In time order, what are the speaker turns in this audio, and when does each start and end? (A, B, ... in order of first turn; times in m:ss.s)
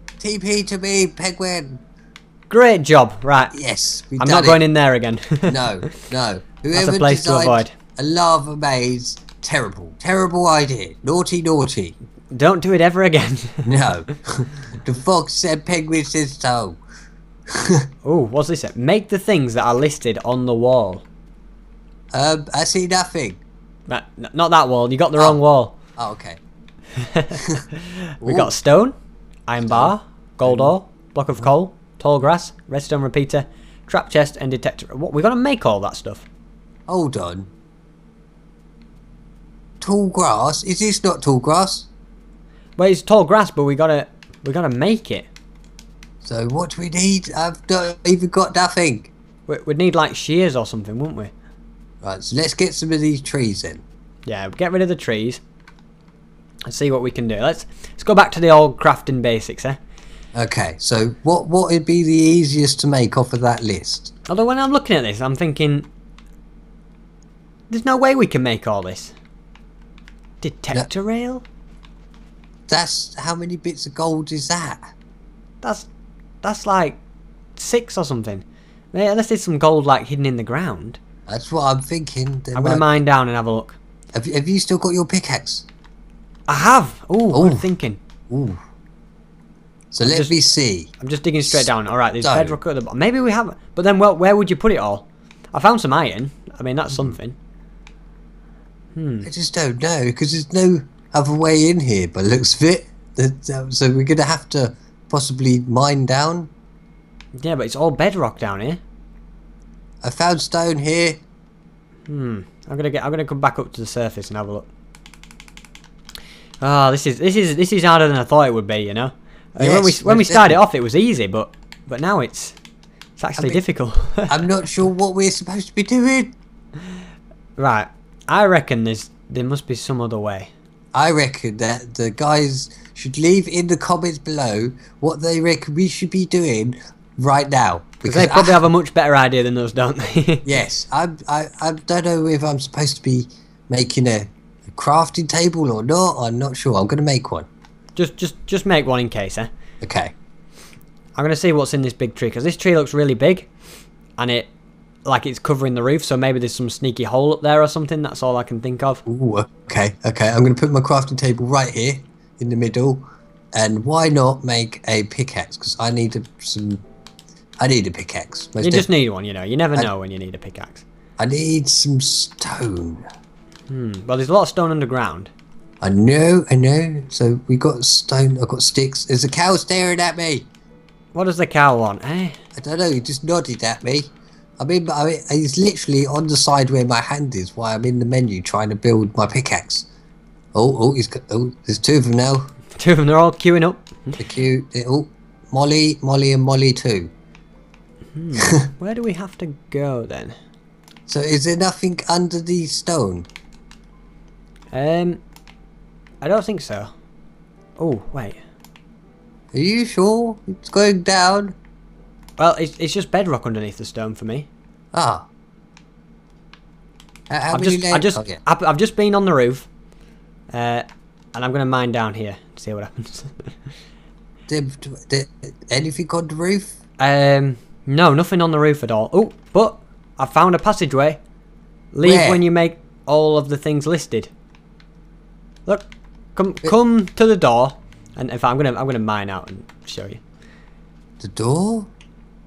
0:00.2-0:01.8 A
0:02.5-0:03.5 B
0:03.5-0:04.6 A
0:04.2-0:06.0 B
0:05.5-0:11.9 A
0:06.7-0:07.7 B
0:12.3-0:13.7 B
0:13.6-0:16.8 A
0:17.5-0:17.9 A
0:18.0-0:21.0 B
0:22.1-0:23.4 A
0:23.9-0:25.7 B
0:26.0-0:26.4 A
0:27.0-0:28.9 B
0:28.2-0:28.5 A
0:29.5-0:36.2 B
0:29.6-0:29.9 A
0:30.4-0:30.7 A
0:36.9-0:37.5 A
0:39.8-0:41.9 A
0:42.8-0:45.3 B
0:46.2-0:49.1 A
0:49.5-0:51.3 B
0:52.0-0:53.8 A
0:54.2-0:55.4 B
0:56.7-0:59.8 B
1:00.3-1:04.1 A
1:04.3-1:05.9 B
1:07.7-1:09.1 B
1:10.4-1:11.4 B
1:12.7-1:14.9 A
1:15.6-1:15.9 B
1:16.4-1:17.0 B
1:17.6-1:21.0 B
1:21.3-1:22.8 A
1:22.5-1:23.8 B
1:24.1-1:25.6 A
1:26.5-1:28.0 B
1:27.3-1:27.7 A
1:28.3-1:28.6 A
1:29.9-1:30.9 A
1:30.0-1:30.4 B
1:31.0-1:37.3 B
1:32.2-1:32.6 A
1:38.9-1:39.3 B
1:39.2-1:46.5 A
1:47.4-1:48.8 B
1:50.0-1:51.2 A
1:52.1-1:54.7 B
1:56.6-2:02.6 B
1:59.6-2:00.6 A
2:03.2-2:04.4 B
2:04.3-2:06.3 A
2:07.6-2:10.5 B
2:10.9-2:18.6 A
2:18.0-2:20.5 B
2:20.4-2:27.5 A
2:28.0-2:29.5 B
2:29.8-2:30.1 A
2:31.2-2:33.5 B
2:34.2-2:34.5 B
2:35.0-2:39.0 B
2:39.0-2:43.0 A
2:43.6-2:46.8 A
2:47.6-2:48.9 A
2:48.6-2:50.8 B
2:51.2-2:53.0 A
2:53.7-2:55.3 B
2:55.8-3:00.5 A
3:01.1-3:02.4 B
3:02.5-3:09.9 A
3:10.5-3:12.5 A
3:12.7-3:14.2 B
3:14.2-3:17.1 A
3:18.1-3:20.3 B
3:18.4-3:18.6 A
3:21.1-3:23.3 A
3:24.7-3:25.2 B
3:26.2-3:26.9 B
3:27.8-3:28.4 B
3:29.5-3:31.5 A
3:32.4-3:34.5 B
3:34.9-3:35.3 A
3:37.3-3:38.4 A
3:37.5-3:39.7 B
3:40.5-3:43.5 B
3:44.5-3:46.8 A
3:47.0-3:51.2 B
3:51.9-3:54.3 B
3:52.0-3:52.4 A
3:55.7-4:00.2 B
4:01.2-4:01.9 A